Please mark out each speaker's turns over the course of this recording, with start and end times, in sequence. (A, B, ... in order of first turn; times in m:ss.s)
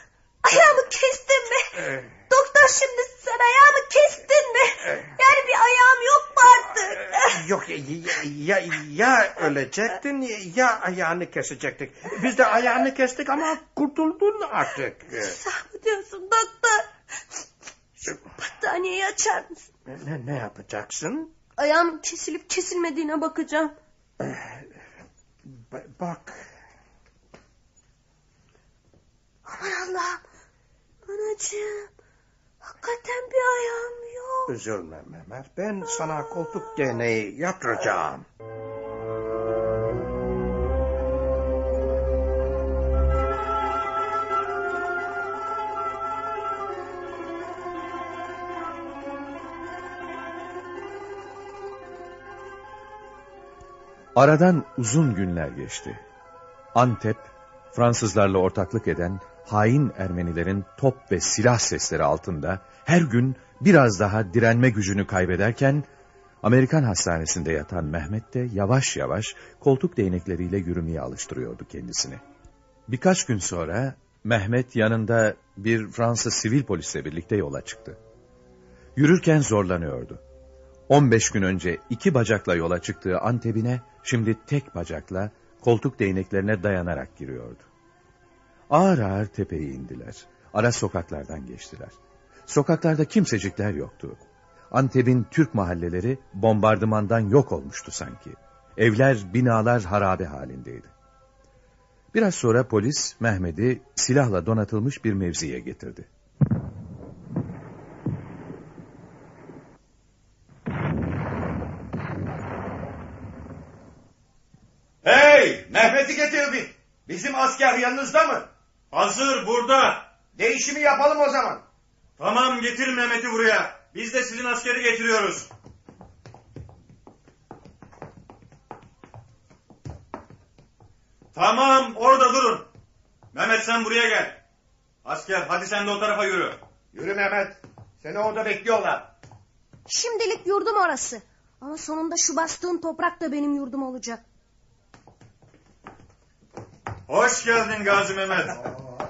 0:00.4-0:07.4 A
0:01.8-0:02.1 B
0:06.9-0:15.4 B
0:15.2-0:16.9 A
0:18.4-0:19.7 A
0:19.9-0:21.3 B
0:21.6-0:23.7 A
0:24.2-0:24.6 B
0:25.6-0:26.4 B
0:29.5-0:30.2 A
0:31.0-0:31.9 A
0:32.6-0:34.5 A
0:34.5-0:38.2 B
0:54.2-0:56.0 C
0:56.7-1:05.9 C
1:06.4-1:12.2 C
1:12.9-1:18.0 C
1:19.0-1:20.2 C
1:20.9-1:27.7 C
1:28.7-1:40.9 C
1:42.1-1:46.1 C
1:55.0-1:58.5 D
1:58.9-2:00.1 E
2:00.4-2:01.6 D
2:02.2-2:05.5 E
2:11.3-2:12.7 E
2:13.3-2:14.4 E
2:15.0-2:16.6 E
2:16.9-2:19.1 D
2:19.9-2:24.2 A
2:27.1-2:28.6 E